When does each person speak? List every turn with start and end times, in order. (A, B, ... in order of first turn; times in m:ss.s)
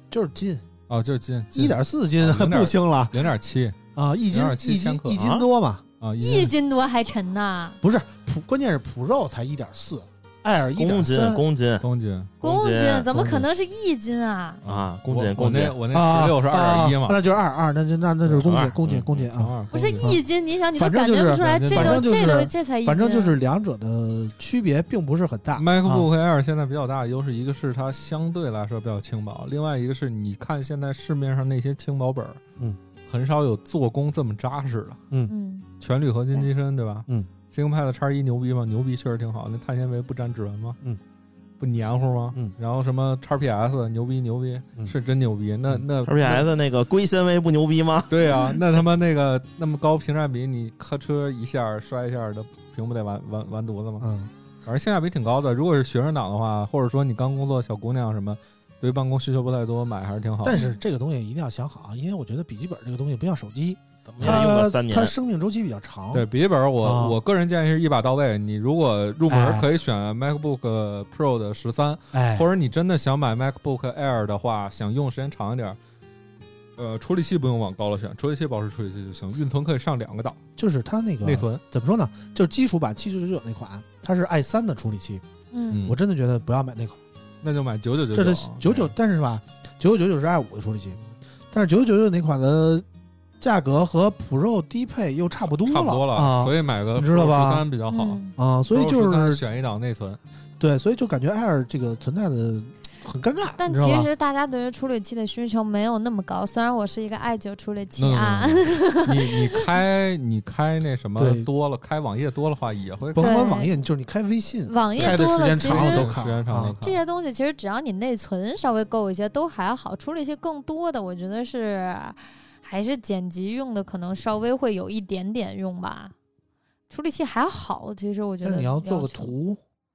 0:00.1-0:00.6 A
0:00.9-0:03.8 B
0:01.5-0:03.2 A
0:03.9-0:05.8 A
0:04.3-0:05.2 B
0:05.1-0:05.4 C
0:06.0-0:06.5 B
0:06.2-0:07.8 D
0:07.8-0:11.4 A
0:10.8-0:11.8 C
0:11.8-0:12.3 B
0:12.4-0:13.1 C
0:12.4-0:14.6 D
0:13.1-0:13.4 A
0:14.6-0:17.2 B
0:14.6-0:15.8 C
0:15.9-0:20.2 A
0:18.4-0:19.1 C
0:19.1-0:20.1 B
0:19.7-0:23.3 D
0:20.7-0:26.1 A
0:21.4-0:22.0 B
0:25.6-0:32.4 B
0:33.0-0:35.0 B
0:35.3-0:35.6 D
0:35.8-0:40.8 B
0:41.6-0:46.4 B
0:46.0-0:48.3 C
0:48.1-0:54.1 B
0:54.0-0:54.3 A
0:54.6-1:00.6 B
1:00.4-1:06.3 A
1:04.1-1:05.1 C
1:06.1-1:15.8 B
1:06.8-1:07.2 A
1:09.3-1:09.7 A
1:12.1-1:12.5 A
1:16.8-1:20.4 B
1:20.6-1:25.2 A
1:21.2-1:21.6 B
1:25.5-1:25.8 D
1:25.7-1:26.0 B
1:25.8-1:27.0 A
1:27.4-1:28.9 B
1:28.1-1:31.0 A
1:31.5-1:32.8 A
1:33.4-1:37.6 A
1:35.6-1:38.2 B
1:37.9-1:38.3 D
1:38.4-1:39.4 A
1:38.7-1:40.2 B
1:40.6-1:44.1 A
1:43.6-1:49.6 D
1:48.0-1:53.4 B
1:51.2-1:51.5 A
1:53.1-1:56.8 A
1:53.2-1:53.7 D
1:54.7-1:56.1 D
1:55.0-1:57.0 B
1:56.8-2:06.1 D
2:06.9-2:09.3 D
2:08.4-2:09.6 A